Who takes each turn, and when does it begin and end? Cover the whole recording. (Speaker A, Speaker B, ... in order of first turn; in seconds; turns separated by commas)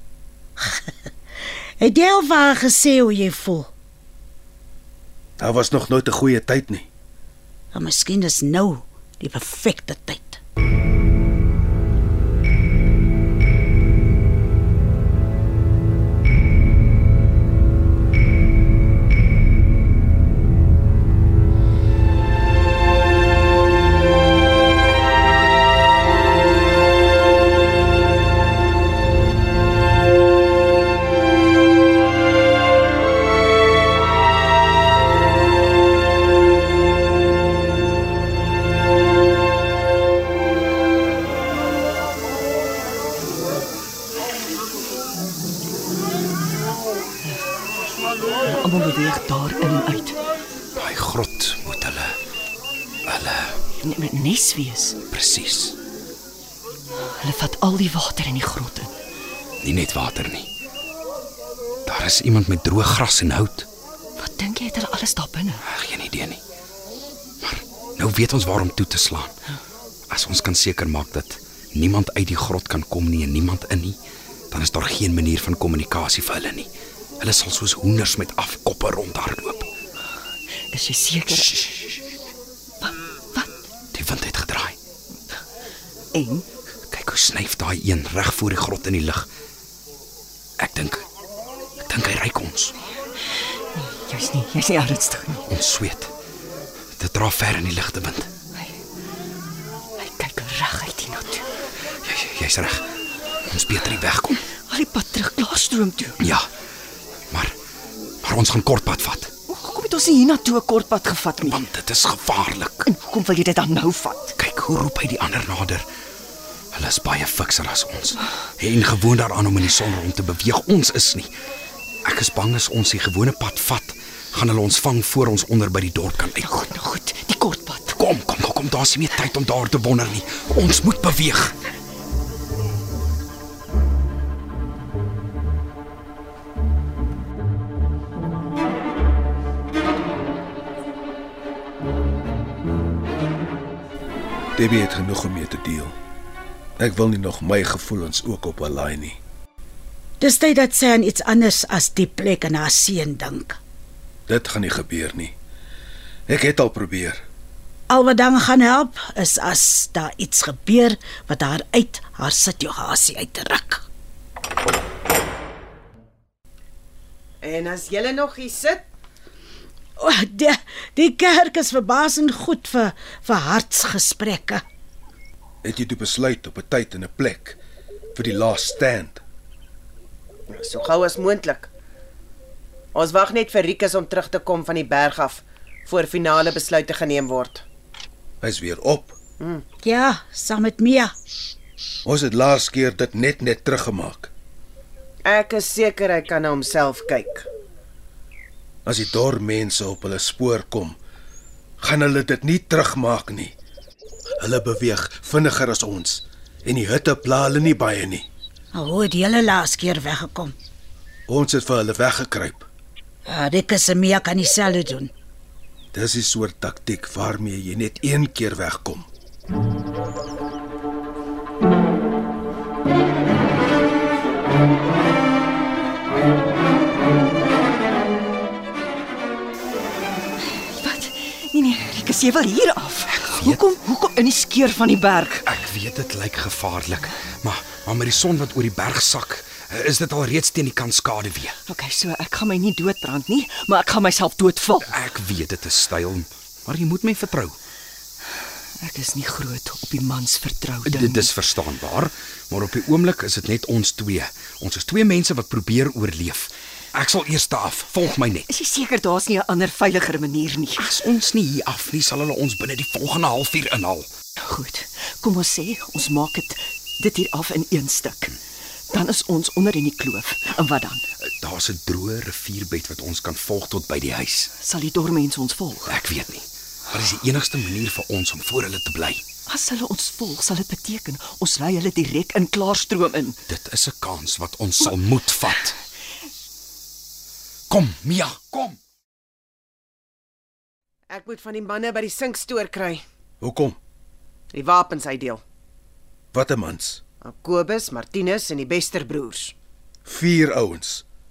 Speaker A: 0.6-0.9, Speaker A: 1.8-3.7, Speaker B: 5.4-6.9, Speaker A: 7.7-10.4, Speaker C: 48.4-50.2, Speaker D: 50.8-52.2, Speaker D: 53.1-53.6, Speaker C: 53.8-55.0, Speaker D: 55.1-55.8, Speaker C: 57.2-59.0, Speaker D: 59.6-60.5, Speaker D: 61.9-63.7, Speaker C: 64.2-65.6, Speaker D: 65.7-66.4, Speaker D: 67.4-69.3, Speaker D: 70.1-74.0, Speaker D: 74.5-76.7, Speaker D: 77.2-79.7, Speaker C: 80.7-81.9, Speaker C: 82.8-83.5, Speaker D: 83.9-84.8, Speaker C: 86.1-86.5, Speaker D: 86.9-89.3, Speaker D: 90.6-91.0, Speaker D: 91.8-92.8, Speaker C: 93.8-95.5, Speaker D: 95.5-96.1, Speaker D: 97.0-98.3, Speaker C: 100.0-101.4, Speaker D: 102.0-102.8, Speaker D: 103.5-104.5, Speaker C: 104.7-106.2, Speaker D: 106.2-106.5, Speaker D: 108.2-109.3, Speaker C: 109.5-111.6, Speaker D: 111.4-112.9, Speaker C: 112.9-114.3, Speaker D: 114.4-115.8, Speaker D: 116.7-121.3, Speaker D: 122.0-126.5, Speaker C: 126.4-128.0, Speaker D: 127.9-131.6, Speaker B: 144.6-145.9, Speaker B: 146.8-149.2, Speaker A: 150.2-153.6, Speaker B: 154.3-155.3, Speaker B: 156.3-157.2, Speaker A: 157.9-163.8, Speaker E: 167.4-168.8, Speaker A: 170.0-174.6, Speaker B: 175.6-177.6, Speaker B: 178.2-179.2, Speaker E: 180.5-181.7, Speaker E: 182.9-187.6, Speaker B: 188.4-189.2, Speaker A: 189.8-191.1, Speaker B: 192.1-194.3, Speaker E: 195.2-197.5, Speaker B: 198.9-201.0, Speaker B: 201.8-203.6, Speaker B: 204.4-208.3, Speaker A: 208.7-210.5, Speaker B: 211.3-212.7, Speaker A: 213.3-215.1, Speaker B: 215.9-219.1, Speaker C: 230.5-235.4, Speaker D: 233.1-233.6, Speaker D: 235.4-241.6, Speaker C: 241.7-245.0, Speaker D: 244.9-247.6, Speaker C: 248.8-251.3, Speaker D: 250.8-258.5, Speaker C: 258.5-260.9, Speaker D: 260.8-264.1, Speaker C: 264.4-268.4, Speaker C: 268.9-271.0, Speaker D: 271.2-274.5, Speaker C: 274.6-276.0, Speaker D: 275.9-279.2, Speaker C: 279.5-283.4, Speaker D: 283.5-285.8, Speaker D: 287.7-288.8, Speaker E: 291.1-293.0, Speaker B: 293.4-293.8, Speaker E: 294.5-295.4, Speaker B: 296.3-297.0, Speaker E: 297.2-299.5, Speaker B: 300.1-301.1